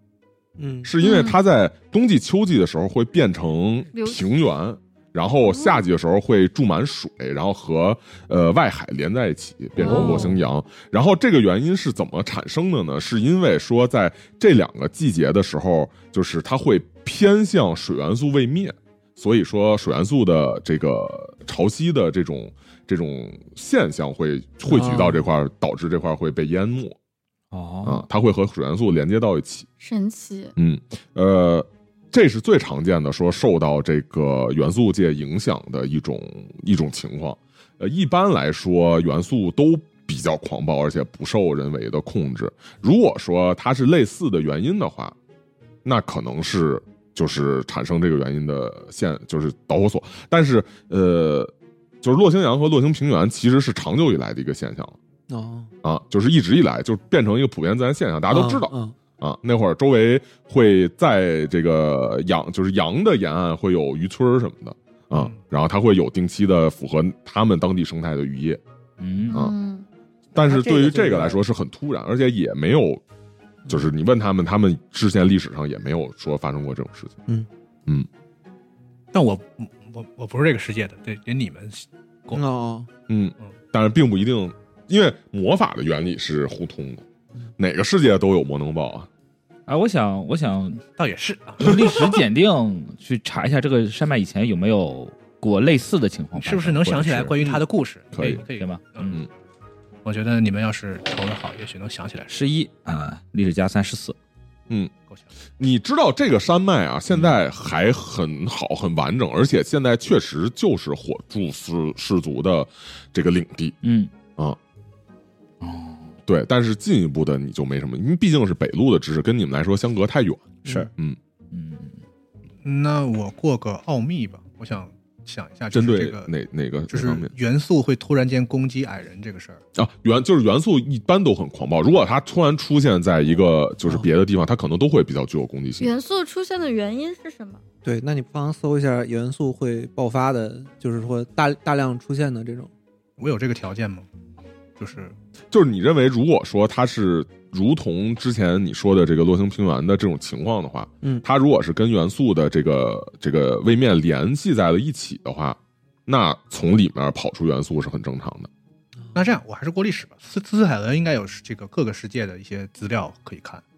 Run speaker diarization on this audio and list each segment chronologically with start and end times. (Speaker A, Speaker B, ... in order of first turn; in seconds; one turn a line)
Speaker A: 0.6-0.9
Speaker B: 0.8-27.0
Speaker C: 1.0-1.4
Speaker C: 3.9-4.3
Speaker C: 9.8-10.3
Speaker D: 9.8-10.3
Speaker A: 24.7-25.2
Speaker D: 27.5-28.0
Speaker B: 27.8-29.7
Speaker C: 29.8-30.5
Speaker B: 30.6-45.1
Speaker B: 45.8-51.5
Speaker B: 52.0-55.0
Speaker A: 55.3-55.7
Speaker B: 55.8-68.6
Speaker A: 58.3-58.9
Speaker D: 69.0-69.4
Speaker C: 69.3-69.8
Speaker B: 70.3-73.0
Speaker A: 70.5-71.4
Speaker B: 73.7-77.2
Speaker E: 79.1-82.4
Speaker A: 82.3-82.9
Speaker B: 83.1-87.0
Speaker B: 87.6-89.1
Speaker D: 89.7-90.8
Speaker E: 91.0-92.1
Speaker D: 91.6-97.6
Speaker E: 96.3-99.2
Speaker B: 98.1-98.4
Speaker D: 98.2-99.2
Speaker E: 100.0-102.3
Speaker D: 102.3-104.2
Speaker B: 105.6-113.8
Speaker D: 113.8-114.1
Speaker D: 115.6-116.1
Speaker B: 116.3-121.2
Speaker D: 121.5-122.0
Speaker E: 122.6-126.3
Speaker B: 125.7-127.3
Speaker E: 126.9-129.6
Speaker B: 129.7-135.9
Speaker C: 135.8-137.6
Speaker A: 137.8-142.7
Speaker E: 143.2-144.1
Speaker E: 144.8-145.1
Speaker B: 145.5-158.5
Speaker E: 159.1-163.6